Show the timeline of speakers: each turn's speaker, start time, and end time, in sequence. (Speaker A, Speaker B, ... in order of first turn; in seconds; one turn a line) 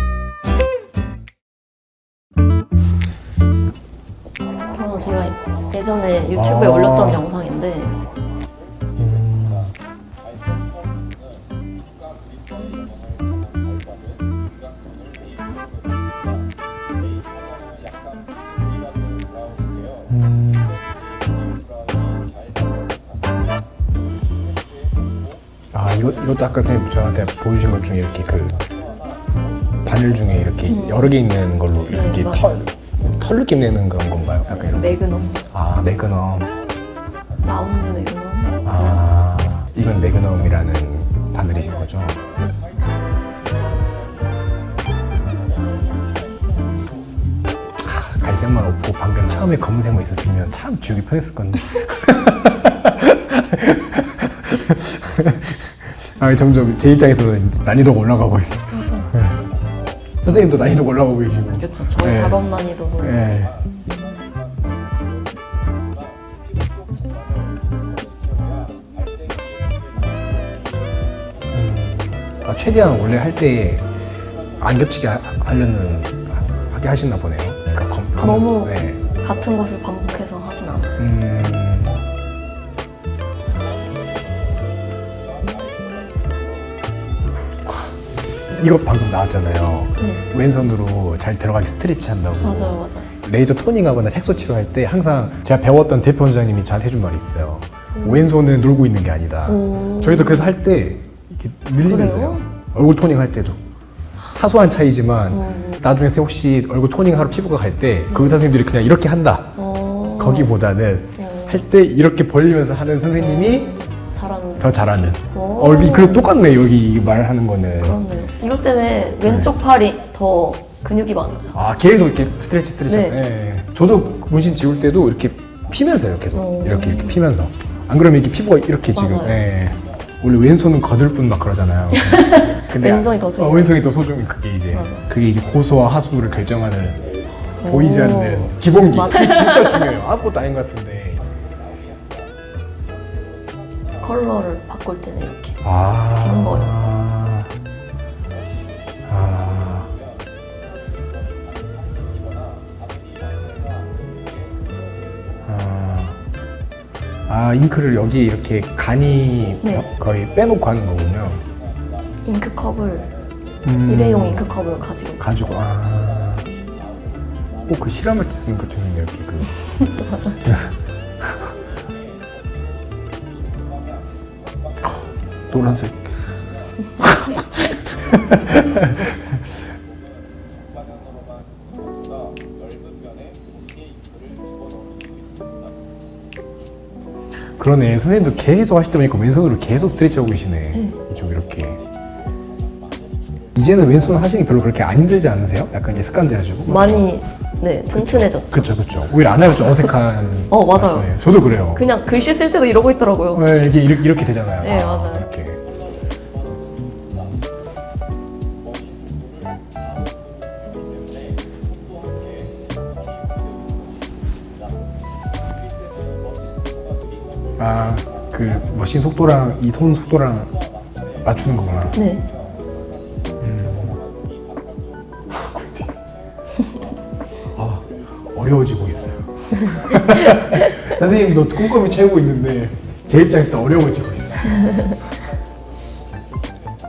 Speaker A: 4.6-8.0
Speaker B: 6.3-7.2
Speaker B: 9.0-9.7
Speaker B: 20.1-20.8
Speaker B: 25.7-28.6
Speaker B: 29.8-36.5
Speaker A: 30.6-31.1
Speaker A: 31.9-32.5
Speaker A: 34.5-35.4
Speaker A: 37.4-38.6
Speaker B: 38.6-42.2
Speaker B: 47.8-59.4
Speaker A: 58.7-59.1
Speaker B: 60.2-62.4
Speaker A: 61.5-63.3
Speaker B: 63.0-63.6
Speaker B: 71.5-74.0
Speaker B: 74.6-79.0
Speaker A: 78.2-81.1
Speaker B: 81.0-82.0
Speaker B: 87.6-88.0
Speaker B: 88.5-103.6
Speaker A: 90.0-90.2
Speaker A: 92.4-93.1
Speaker A: 97.9-98.3
Speaker A: 99.5-100.5
Speaker A: 101.8-102.5
Speaker B: 104.3-109.6
Speaker A: 105.3-105.8
Speaker A: 108.1-108.4
Speaker A: 109.5-110.6
Speaker B: 110.2-113.7
Speaker A: 111.2-111.6
Speaker A: 113.2-114.7
Speaker B: 114.6-118.0
Speaker A: 115.3-116.3
Speaker A: 117.8-121.5
Speaker B: 119.2-119.5
Speaker B: 121.5-141.2
Speaker A: 122.8-123.2
Speaker A: 126.3-127.2
Speaker A: 128.9-129.4
Speaker A: 131.9-133.8
Speaker A: 134.7-135.1
Speaker A: 137.6-139.9
Speaker A: 144.0-145.6
Speaker B: 145.6-147.5
Speaker A: 146.2-146.7
Speaker B: 149.1-149.9
Speaker B: 155.4-156.2
Speaker B: 157.3-161.4
Speaker A: 162.2-163.1
Speaker B: 163.6-164.5
Speaker A: 163.8-165.4
Speaker B: 165.2-166.5
Speaker B: 167.7-169.5
Speaker A: 169.6-170.4
Speaker B: 170.4-170.7
Speaker B: 174.8-176.2
Speaker B: 177.0-179.1
Speaker B: 187.6-191.8
Speaker B: 193.5-197.1
Speaker A: 196.7-198.6
Speaker B: 197.9-201.8
Speaker A: 200.5-203.5
Speaker B: 203.3-205.6
Speaker A: 204.6-205.3
Speaker B: 217.6-220.6
Speaker B: 221.2-222.0
Speaker A: 221.9-222.3
Speaker B: 223.4-223.9
Speaker B: 225.3-225.8
Speaker B: 227.5-235.0
Speaker A: 229.7-230.9